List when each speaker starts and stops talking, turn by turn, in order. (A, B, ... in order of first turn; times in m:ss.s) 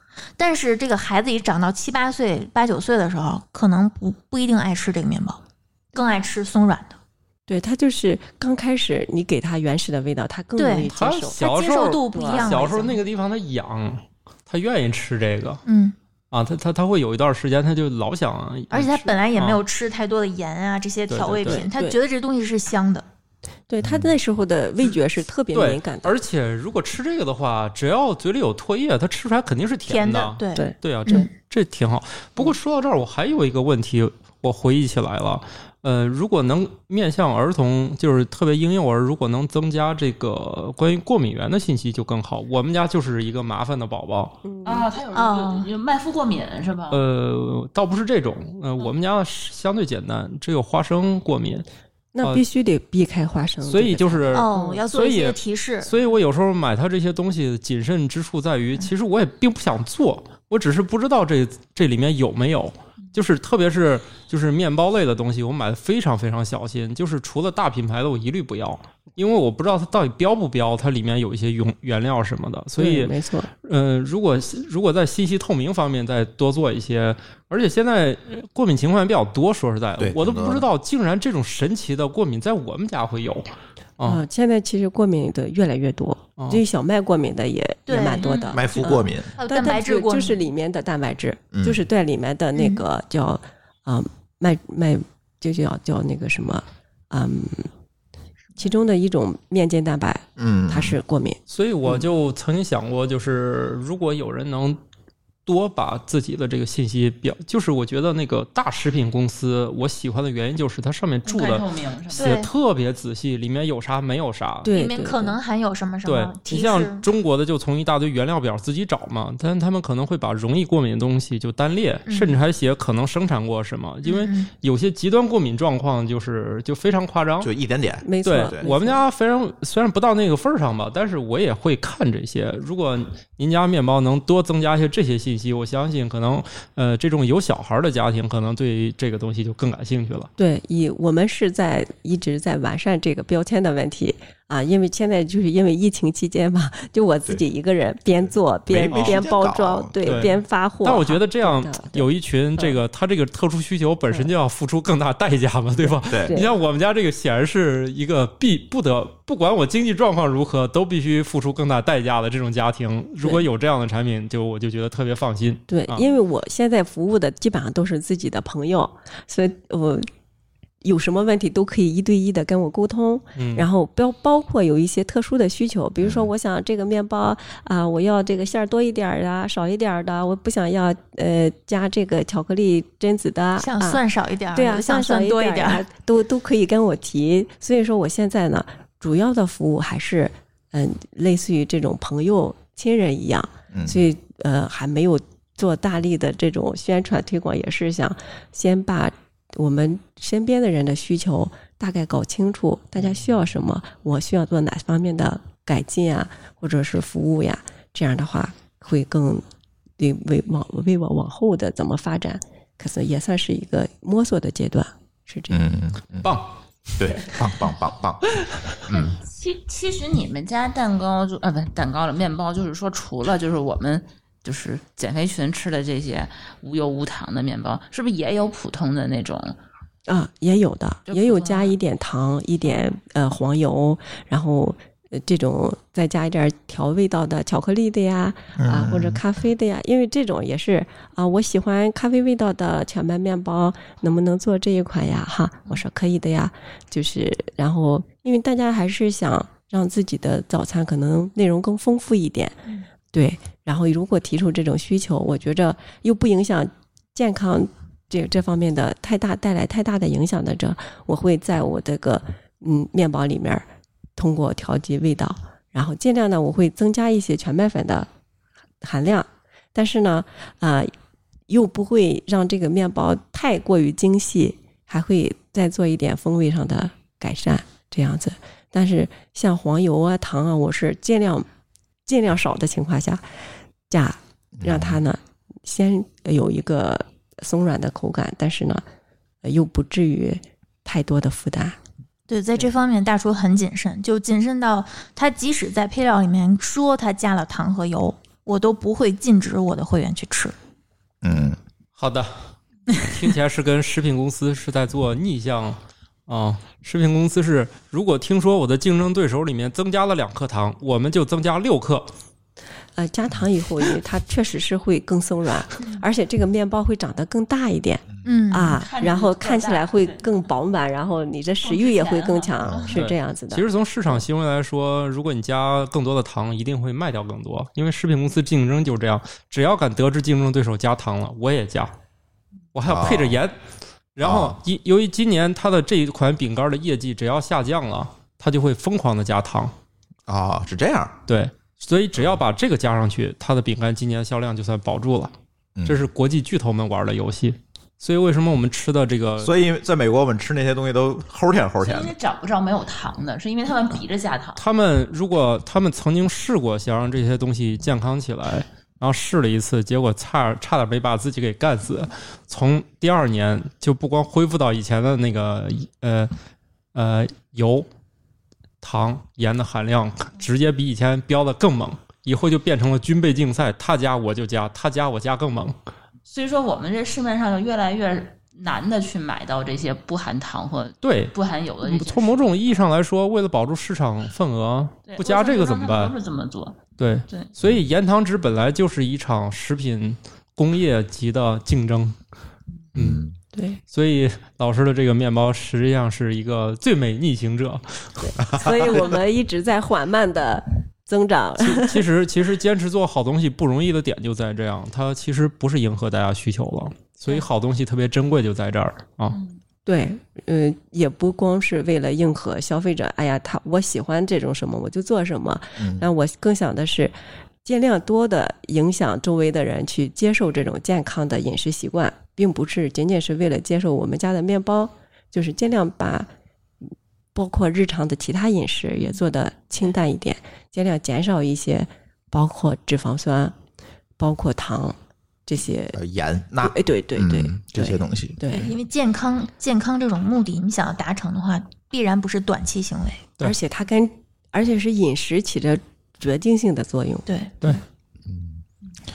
0:00.4-0:05.4 A
0:05.9-0:06.9 A
0:07.5-0:11.5 B
0:10.6-0:13.0 A
0:10.9-0:15.6 C
0:12.1-0:12.9 B
0:15.6-0:15.9 A
0:16.3-0:19.6 C
0:18.7-0:23.0 A
0:21.1-0:21.6 C
0:21.4-0:22.0 B
0:23.7-0:26.2 B
0:23.8-0:24.1 D
0:25.5-0:44.4 C
0:29.9-0:31.3 A
0:30.5-0:31.3 B
0:44.4-0:44.9 B
0:44.6-0:47.0 E
0:45.1-0:45.6 A
0:46.9-0:51.6 C
0:52.1-0:54.8 B
0:53.6-1:23.5 C
0:54.3-0:55.9 A
1:12.8-1:13.5 B
1:20.0-1:20.7 D
1:24.0-1:37.7 B
1:27.9-1:28.5 A
1:28.2-1:28.5 E
1:28.5-1:29.3 D
1:29.4-1:30.4 A
1:31.5-1:31.8 D
1:32.6-1:32.8 A
1:38.6-1:42.0 B
1:40.4-1:41.0 D
1:41.5-1:44.8 C
1:45.4-1:54.7 C
1:51.2-1:52.4 E
1:52.2-1:52.5 A
1:54.6-1:55.4 B
1:54.7-1:57.0 A
1:56.0-2:07.5 C
2:02.1-2:02.3 A
2:04.0-2:04.5 A
2:07.4-2:08.7 D
2:08.0-2:09.0 B
2:08.2-2:20.3 C
2:20.4-2:32.8 B
2:28.7-2:30.3 D
2:28.9-2:29.2 C
2:30.0-2:46.0 C
2:35.8-2:36.5 B
2:36.1-2:36.3 D
2:45.7-2:50.1 B
2:50.8-3:29.4 B
2:53.4-2:53.7 C
2:56.0-2:56.3 D
3:03.6-3:05.8 A
3:13.7-3:14.0 D
3:30.0-3:35.6 B
3:35.5-3:36.4 D
3:36.2-3:36.5 C
3:37.0-3:38.2 D
3:38.9-3:39.1 D
3:38.9-3:49.6 E
3:50.1-4:28.1 B
3:51.1-3:51.7 E
3:58.6-3:59.2 D
4:28.8-4:30.9 B
4:31.5-4:41.5 B
4:42.0-4:43.2 B
4:43.9-4:48.8 B
4:44.6-4:45.0 D
4:49.4-4:51.8 B
4:52.3-5:00.5 A
5:01.2-5:01.6 D
5:02.0-5:12.1 C
5:13.0-5:24.2 B
5:18.2-5:18.8 A
5:18.7-5:20.2 E
5:21.6-5:22.9 E
5:22.6-5:23.0 D
5:22.9-5:31.9 C
5:32.7-5:33.6 C
5:32.8-5:33.4 D
5:34.1-5:39.7 C
5:34.2-5:34.6 D
5:40.3-5:41.2 D
5:41.3-5:45.3 C
5:45.8-5:46.1 D
5:45.9-5:49.5 C
5:49.4-5:52.1 D
5:51.8-5:54.6 E
5:54.6-6:06.3 C
6:06.9-6:07.9 C
6:08.8-6:15.8 C
6:16.2-6:22.7 E
6:21.0-6:26.1 C
6:25.0-6:27.5 E
6:27.0-6:32.2 C
6:32.9-6:33.2 C
6:33.0-6:33.3 D
6:33.5-6:33.8 B
6:33.9-6:38.2 C
6:38.2-6:42.0 B
6:41.6-6:49.4 C
6:49.3-6:49.6 E
6:49.8-7:06.3 B
6:55.8-6:56.0 D
7:07.3-7:13.5 B
7:14.2-7:16.0 B
7:16.0-7:18.6 D
7:16.6-7:18.7 B
7:18.5-7:23.2 A
7:23.4-7:27.8 B
7:27.3-7:27.5 A
7:28.3-7:28.6 D